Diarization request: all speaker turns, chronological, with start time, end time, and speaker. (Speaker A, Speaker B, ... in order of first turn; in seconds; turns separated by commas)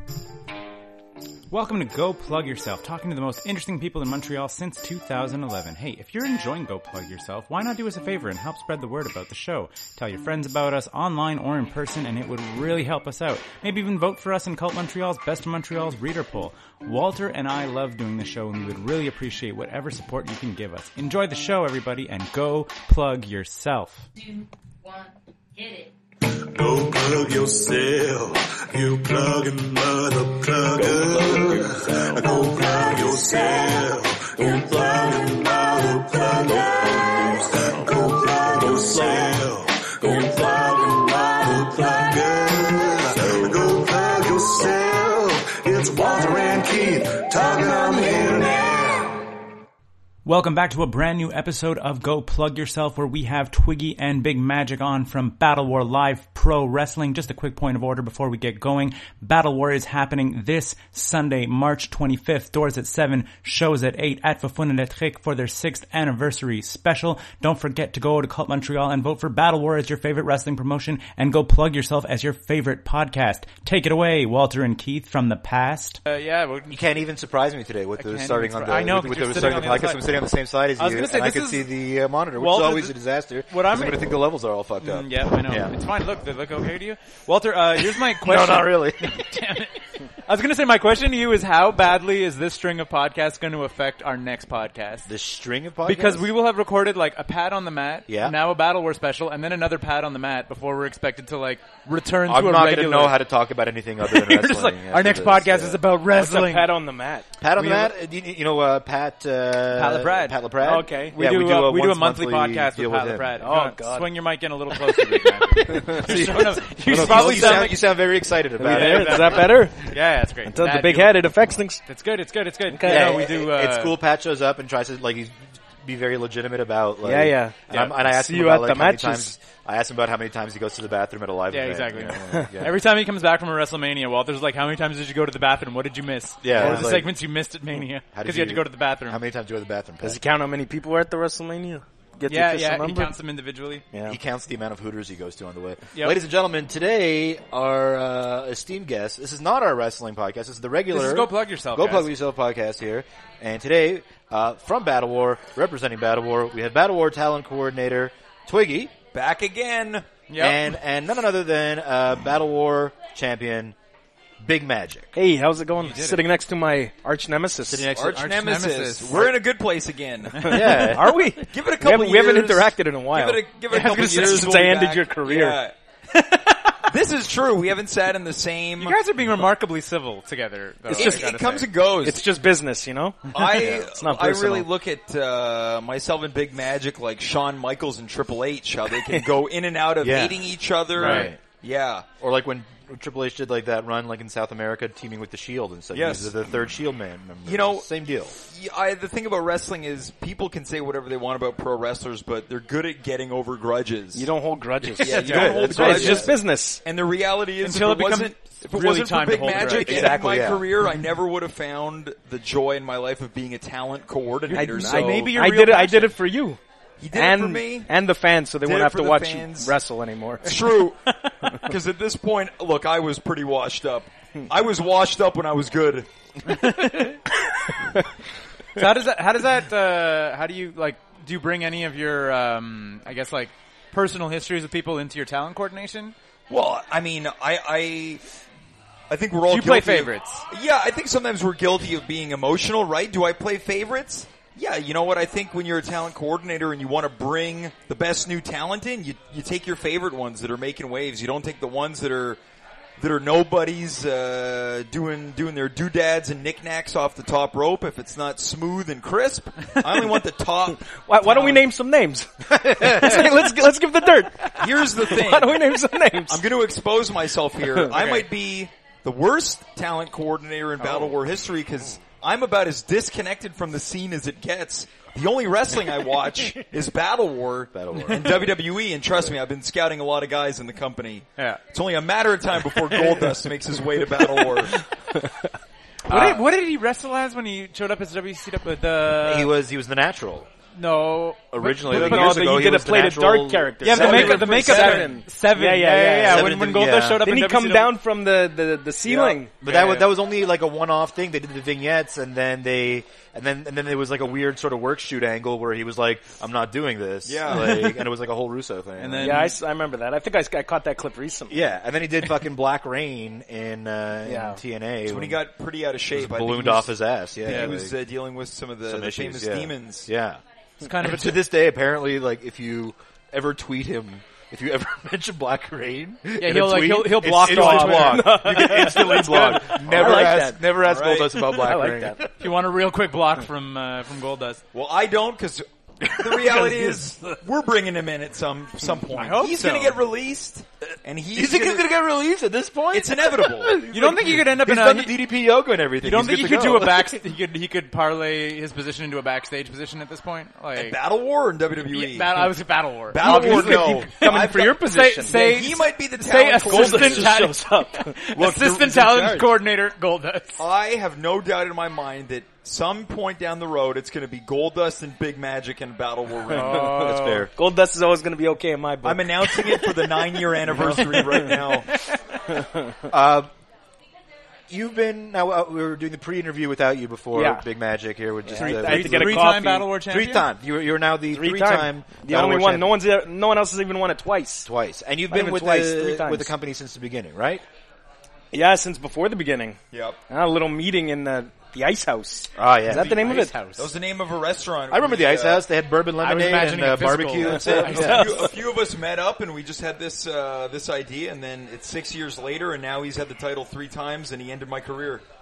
Speaker A: 1.5-24.1, Speaker B: 26.2-49.2, Speaker A: 50.2-76.0, Speaker C: 76.1-76.8, Speaker D: 76.7-85.7, Speaker C: 78.0-80.0, Speaker C: 80.8-81.7, Speaker C: 82.3-84.2, Speaker C: 84.8-95.1, Speaker D: 87.8-89.2, Speaker D: 95.0-96.3, Speaker C: 95.8-103.2, Speaker D: 98.1-98.4, Speaker D: 102.3-105.8, Speaker C: 104.0-106.7, Speaker E: 106.1-107.8, Speaker D: 107.4-113.4, Speaker C: 109.7-110.4, Speaker E: 110.6-111.2, Speaker C: 111.1-117.9, Speaker E: 113.4-114.1, Speaker E: 115.7-117.7, Speaker D: 116.0-119.5, Speaker E: 118.6-119.8, Speaker C: 118.7-121.3, Speaker E: 120.4-121.8, Speaker C: 121.8-124.0, Speaker E: 122.7-123.2, Speaker D: 122.8-132.8, Speaker E: 127.0-129.3, Speaker C: 131.5-139.2, Speaker D: 136.4-137.1, Speaker E: 136.5-137.1, Speaker D: 138.1-140.2, Speaker E: 140.0-143.1, Speaker C: 142.3-143.8, Speaker E: 143.9-144.2, Speaker D: 144.1-158.9, Speaker C: 150.9-152.1, Speaker F: 159.1-160.1, Speaker C: 160.3-160.7, Speaker D: 160.4-163.7, Speaker D: 164.4-165.2, Speaker E: 165.1-167.9, Speaker C: 165.8-166.3, Speaker D: 167.7-168.3, Speaker F: 167.9-170.5, Speaker C: 168.1-169.3, Speaker C: 170.4-170.8, Speaker D: 170.4-171.2, Speaker E: 170.5-175.6, Speaker F: 171.5-175.7, Speaker C: 173.7-174.6, Speaker C: 176.1-176.9, Speaker F: 176.9-179.0, Speaker C: 178.8-181.7, Speaker E: 180.9-181.2, Speaker F: 180.9-182.2, Speaker E: 182.0-184.7, Speaker F: 183.3-192.1, Speaker D: 183.4-183.8, Speaker D: 190.0-191.4, Speaker C: 190.9-191.3, Speaker D: 192.2-198.3, Speaker F: 195.9-196.5, Speaker F: 197.4-197.8, Speaker F: 198.5-204.3, Speaker E: 204.1-206.8, Speaker F: 204.9-215.4, Speaker C: 205.0-206.3, Speaker D: 205.2-206.3, Speaker C: 207.6-210.2, Speaker D: 209.5-210.7, Speaker C: 214.5-216.1, Speaker E: 214.5-216.6, Speaker F: 217.0-217.9, Speaker E: 217.1-220.6, Speaker F: 218.6-219.7, Speaker F: 220.4-226.1, Speaker C: 220.5-221.5, Speaker C: 226.5-227.2, Speaker C: 228.7-236.1, Speaker F: 236.5-238.2, Speaker F: 239.1-252.4, Speaker C: 239.5-240.5, Speaker F: 253.0-261.6, Speaker E: 261.0-266.5, Speaker D: 262.5-263.2, Speaker F: 264.6-284.8, Speaker C: 267.9-268.3, Speaker D: 277.7-278.5, Speaker C: 286.1-289.5, Speaker D: 286.1-286.4, Speaker D: 289.2-290.5, Speaker C: 290.7-292.5, Speaker D: 291.5-295.2, Speaker E: 291.8-296.6, Speaker C: 293.8-297.9, Speaker D: 296.2-297.2, Speaker E: 297.2-299.5, Speaker D: 299.0-309.4, Speaker C: 299.6-300.1, Speaker F: 307.2-307.8, Speaker C: 307.5-308.0, Speaker C: 309.0-309.6, Speaker E: 309.2-311.8, Speaker D: 311.5-315.4, Speaker E: 314.2-314.6, Speaker F: 315.0-320.1, Speaker D: 316.1-317.9, Speaker C: 317.5-317.8, Speaker D: 318.9-320.4, Speaker C: 320.8-321.4, Speaker D: 320.9-332.3, Speaker C: 326.4-329.8, Speaker E: 327.4-330.7, Speaker F: 329.9-331.3, Speaker E: 331.4-332.2, Speaker C: 332.4-334.6, Speaker F: 334.7-341.8, Speaker C: 339.1-340.0, Speaker D: 341.3-347.2, Speaker F: 342.9-343.8, Speaker C: 343.9-345.2, Speaker C: 346.0-351.0, Speaker F: 350.7-352.5, Speaker C: 351.8-360.6, Speaker F: 353.1-357.3, Speaker D: 353.2-354.1, Speaker E: 353.2-355.4, Speaker E: 356.6-358.2, Speaker F: 358.4-359.4, Speaker D: 358.4-359.4, Speaker F: 360.6-366.9, Speaker C: 366.5-367.5, Speaker D: 366.6-367.5, Speaker E: 367.5-369.6, Speaker F: 369.0-371.9, Speaker C: 371.0-372.1, Speaker E: 372.5-373.0, Speaker D: 373.1-373.5, Speaker D: 374.7-382.9, Speaker E: 377.3-377.6, Speaker E: 378.4-379.9, Speaker C: 378.6-380.5, Speaker E: 381.3-384.7, Speaker D: 384.6-387.6, Speaker E: 385.3-386.5, Speaker E: 388.5-389.8, Speaker F: 389.9-390.2, Speaker E: 390.3-393.6, Speaker D: 392.6-393.5, Speaker C: 392.9-393.9, Speaker F: 393.8-395.6, Speaker D: 394.9-398.2, Speaker C: 396.2-398.6, Speaker F: 397.4-405.2, Speaker E: 397.8-398.4